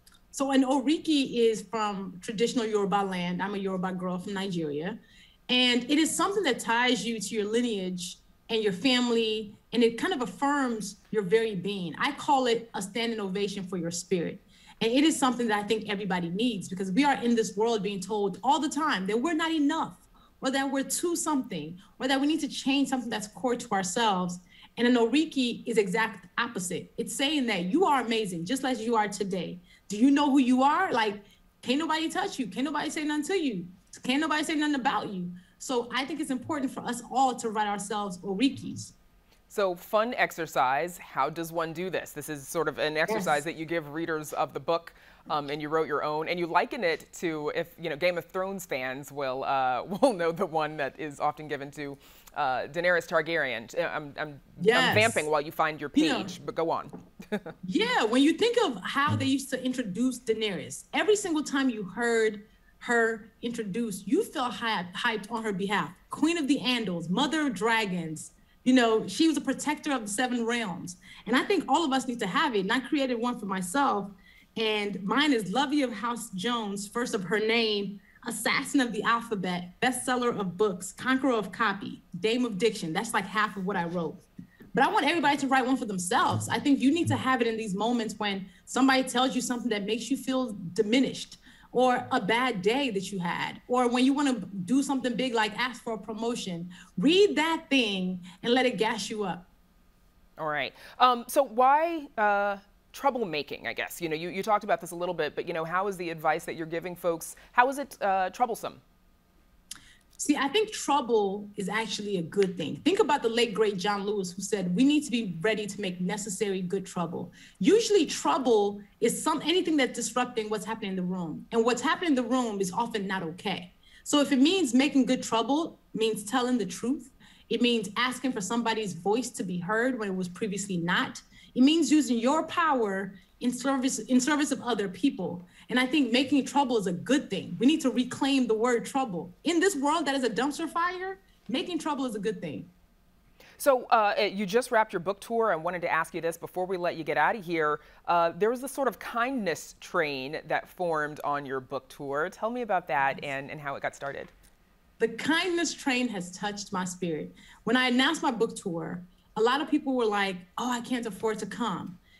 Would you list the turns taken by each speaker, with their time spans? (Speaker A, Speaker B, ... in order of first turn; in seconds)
Speaker A: 0.3-38.9, 43.1-43.4, 54.6-55.2, 55.9-56.3, 57.6-99.5, 110.2-142.7, 155.0-162.0
Speaker B: 39.5-57.5, 100.4-108.8, 143.6-154.3